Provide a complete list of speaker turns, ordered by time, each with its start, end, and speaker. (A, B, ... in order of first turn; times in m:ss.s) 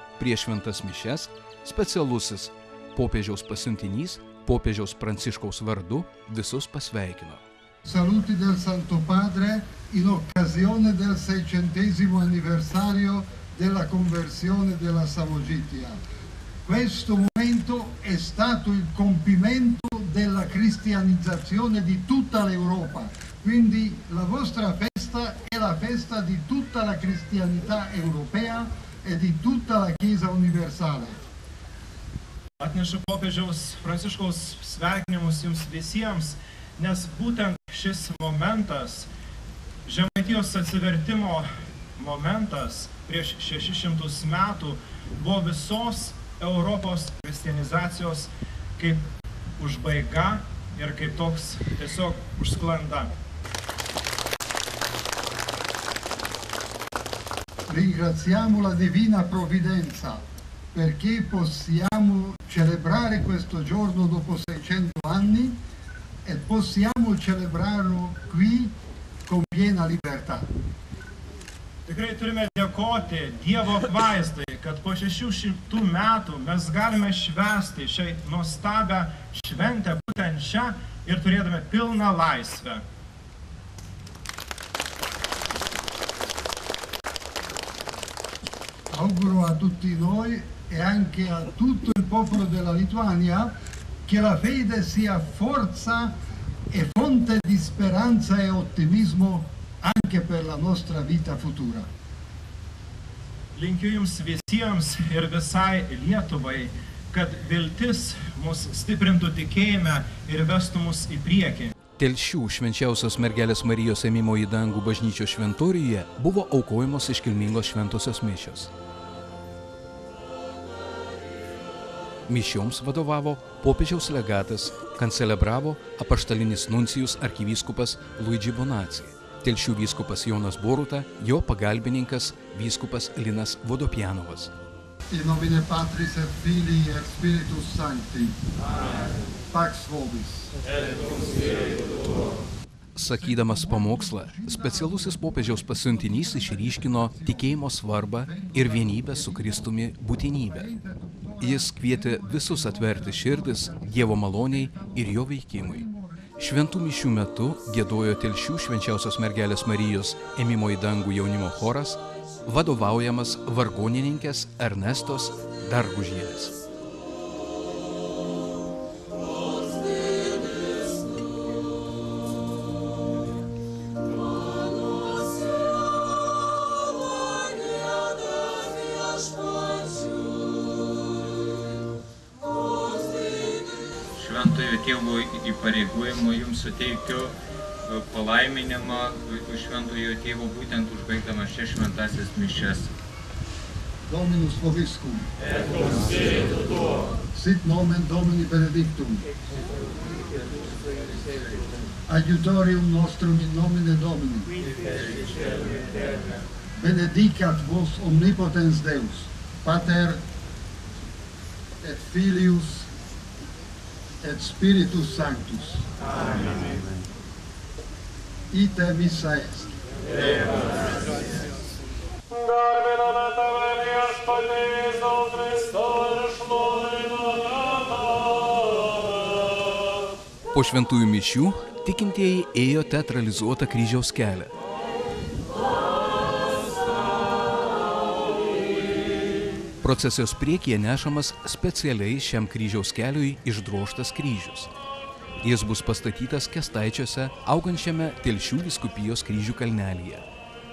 0:00.2-0:07.4 A
0:07.8-0:16.0 B
0:16.7-0:31.2 B
0:32.6-0:39.1 C
0:39.8-0:49.0 C
0:49.6-0:53.1 C
0:57.7-1:00.2 B
1:00.7-1:05.6 B
1:06.2-1:08.7 B
1:09.3-1:10.5 B
1:11.9-1:22.8 C
1:28.9-1:33.5 B
1:34.1-1:36.2 B
1:36.7-1:41.9 B
1:43.6-1:51.7 C
1:52.0-1:58.7 A
2:02.3-2:14.5 A
2:15.1-2:18.4 B
2:19.5-2:20.5 B
2:23.0-2:30.7 A
2:23.1-2:27.5 B
2:28.2-2:29.7 B
2:30.4-2:36.3 B
2:31.4-2:35.9 A
2:36.4-2:46.6 A
3:04.2-3:07.3 D
3:07.9-3:12.9 D
3:14.1-3:15.3 B
3:17.3-3:19.2 B
3:22.1-3:24.5 B
3:26.8-3:30.2 B
3:31.8-3:32.9 B
3:34.2-3:35.9 B
3:38.5-3:39.7 B
3:50.5-3:54.5 A
3:59.8-4:04.7 A
4:05.4-4:10.2 A